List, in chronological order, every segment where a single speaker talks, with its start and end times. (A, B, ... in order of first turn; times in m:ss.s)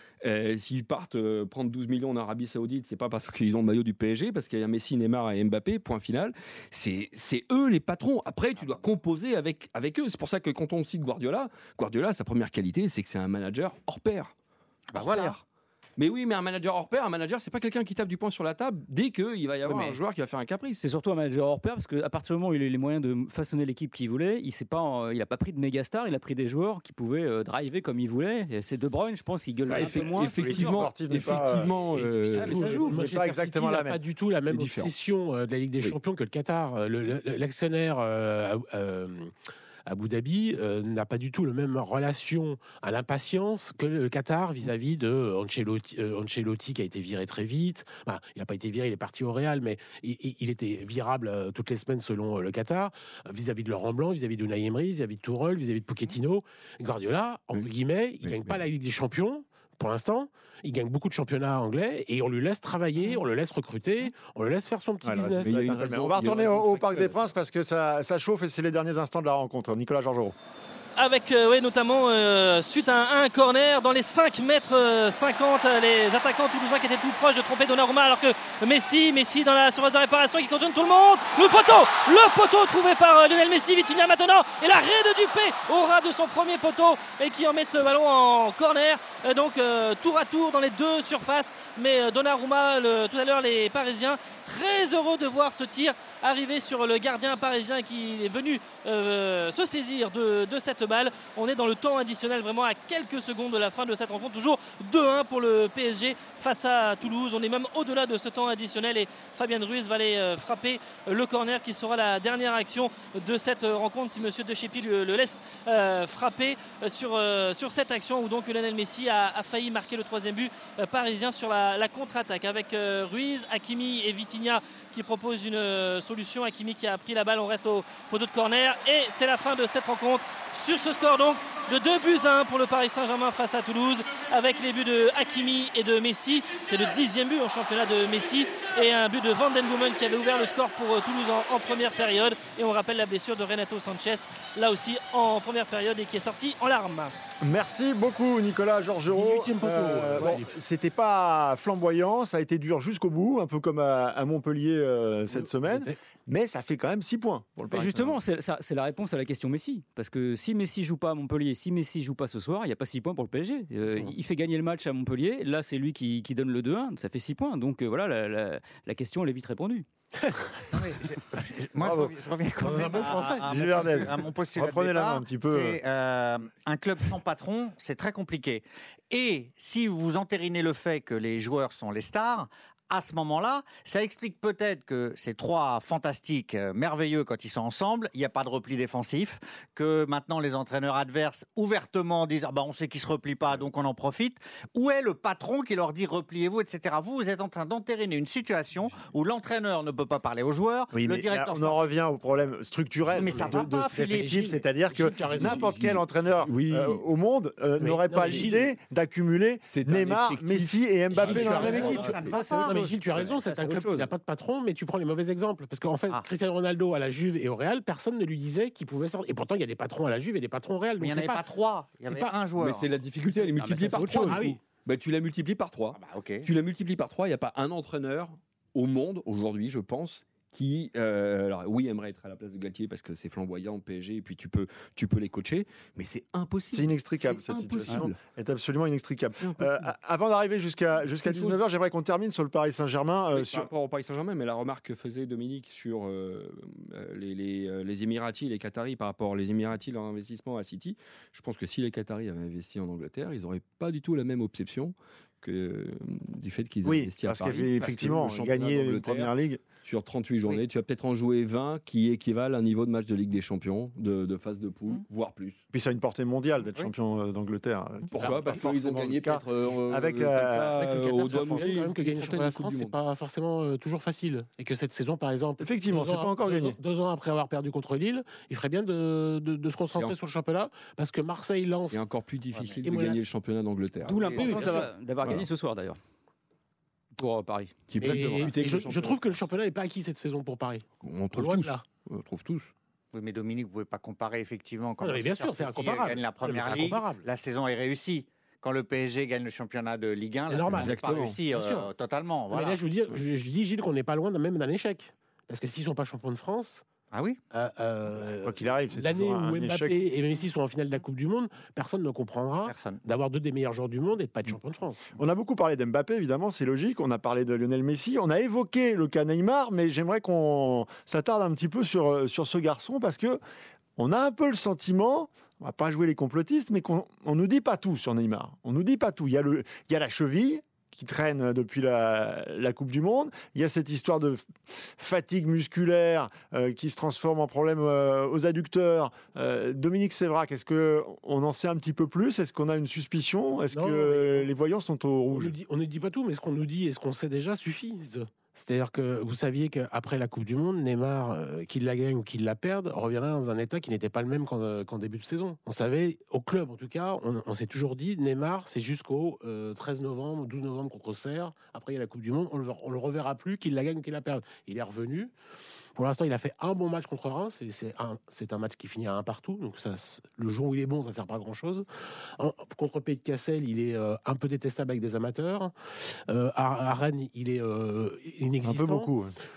0:00.2-0:14.3 A
0:14.9-0:15.4 B
0:14.9-0:15.4 A
0:16.0-0:20.8 A
0:19.6-0:20.0 C
0:20.8-0:30.8 C
0:29.7-0:32.9 A
0:30.4-0:31.8 D
0:31.9-0:39.3 E
0:32.3-0:33.2 C
0:32.8-0:34.0 D
0:34.4-0:34.9 A
0:39.8-1:05.7 E
0:58.4-0:58.6 A
1:05.0-1:10.4 D
1:05.4-1:07.2 A
1:11.0-2:27.2 F
2:27.4-2:38.2 D
2:29.1-2:30.5 E
2:35.3-2:36.0 E
2:37.7-2:49.8 C
2:50.7-3:21.9 B
2:51.8-2:55.8 D
2:52.6-2:54.1 E
3:20.9-3:32.1 D
3:23.1-3:24.4 B
3:23.2-3:25.7 E
3:25.3-3:27.0 A
3:27.8-3:28.7 E
3:28.2-3:28.5 A
3:29.7-3:32.3 A
3:31.2-3:32.8 B
3:31.2-3:34.1 C
3:31.3-3:32.0 E
3:32.6-3:41.4 E
3:41.0-3:42.9 B
3:42.1-3:42.4 E
3:42.6-3:58.2 A
3:43.4-3:44.5 C
3:44.2-3:44.6 E
3:46.0-3:46.5 B
3:56.7-4:03.7 D
3:59.4-3:59.9 A
4:01.1-4:01.6 A
4:03.3-4:19.3 A
4:16.8-4:19.6 D
4:19.8-4:25.6 A
4:25.7-4:31.6 D
4:28.1-4:33.0 A
4:30.6-4:42.0 E
4:35.6-4:36.8 D
4:39.8-4:40.2 A
4:41.9-4:45.4 A
4:42.5-4:42.8 B
4:42.8-4:43.2 E
4:44.0-4:46.0 C
4:44.1-4:44.8 B
4:44.4-4:44.8 E
4:47.2-4:48.4 C
4:47.9-4:49.3 A
4:48.0-4:51.8 E
4:51.0-4:52.7 A
4:53.1-5:02.8 B
4:55.0-4:57.2 E
5:00.5-5:01.9 E
5:00.7-5:01.4 A
5:02.5-5:06.8 E
5:07.1-5:07.4 B
5:07.5-5:15.1 E
5:08.4-5:10.0 D
5:12.6-5:13.0 B
5:15.1-5:23.4 D
5:24.0-5:45.5 D
5:43.7-5:44.5 E
5:45.3-6:05.3 E
6:05.9-6:11.8 E
6:12.4-6:19.1 E
6:18.6-6:19.4 D